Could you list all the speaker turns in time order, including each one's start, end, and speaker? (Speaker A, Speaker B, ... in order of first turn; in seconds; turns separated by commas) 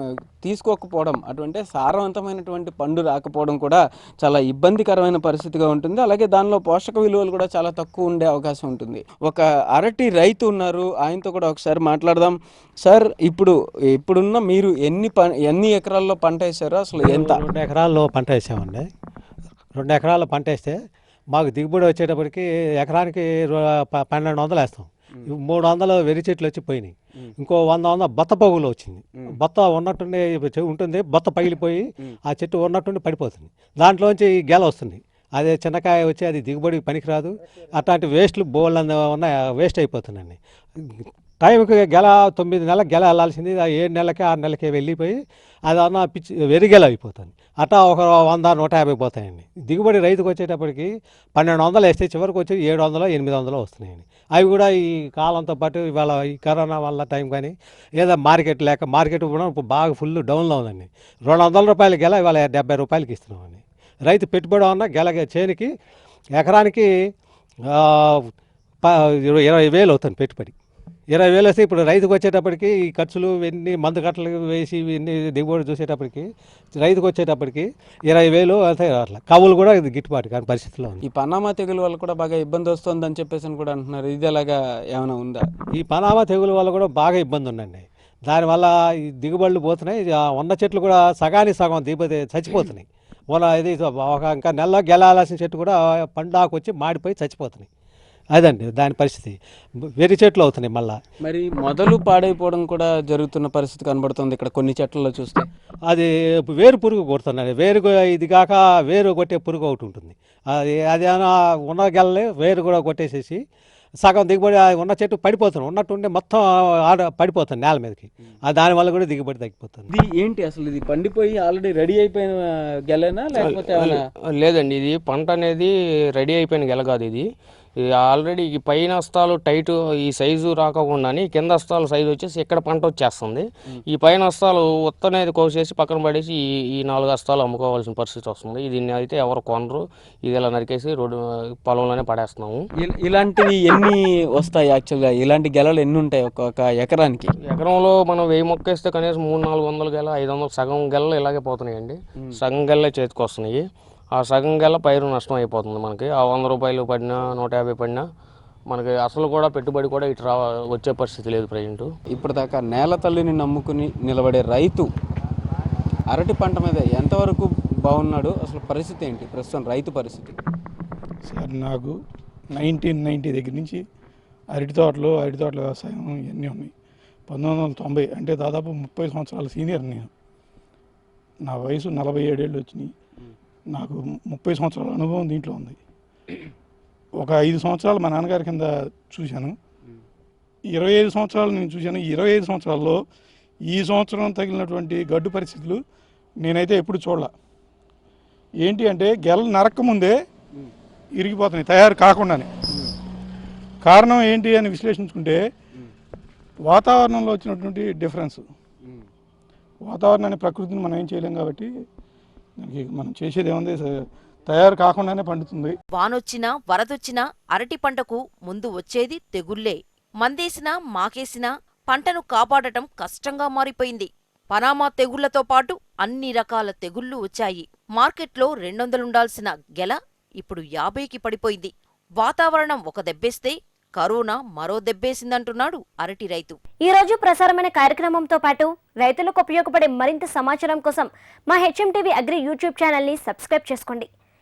Speaker A: 0.4-17.4, Speaker B: 17.0-18.9, Speaker B: 19.8-20.8, Speaker B: 21.3-65.7, Speaker B: 66.4-66.9, Speaker B: 67.7-68.3, Speaker B: 68.8-70.5, Speaker B: 71.1-81.0, Speaker A: 81.0-85.4, Speaker B: 85.8-97.7, Speaker B: 98.3-99.4, Speaker B: 100.0-101.0, Speaker A: 101.2-105.5, Speaker B: 105.9-113.4, Speaker B: 114.0-119.9, Speaker A: 119.9-124.0, Speaker C: 123.4-127.2, Speaker C: 127.8-142.6, Speaker A: 142.8-147.3, Speaker C: 147.4-153.6, Speaker C: 154.1-158.0, Speaker C: 158.7-161.9, Speaker A: 162.1-164.9, Speaker A: 166.1-170.4, Speaker D: 171.3-171.9, Speaker D: 172.5-173.8, Speaker D: 174.5-176.7, Speaker D: 177.3-180.1, Speaker D: 181.4-182.9, Speaker D: 183.7-185.8, Speaker D: 187.2-189.6, Speaker D: 190.7-193.0, Speaker D: 193.7-195.8, Speaker D: 196.4-197.3, Speaker D: 198.6-200.2, Speaker D: 201.2-202.5, Speaker D: 203.8-205.4, Speaker D: 206.7-208.4, Speaker D: 209.8-211.7, Speaker D: 212.6-213.9, Speaker D: 214.5-215.8, Speaker E: 216.0-236.6, Speaker F: 236.8-244.1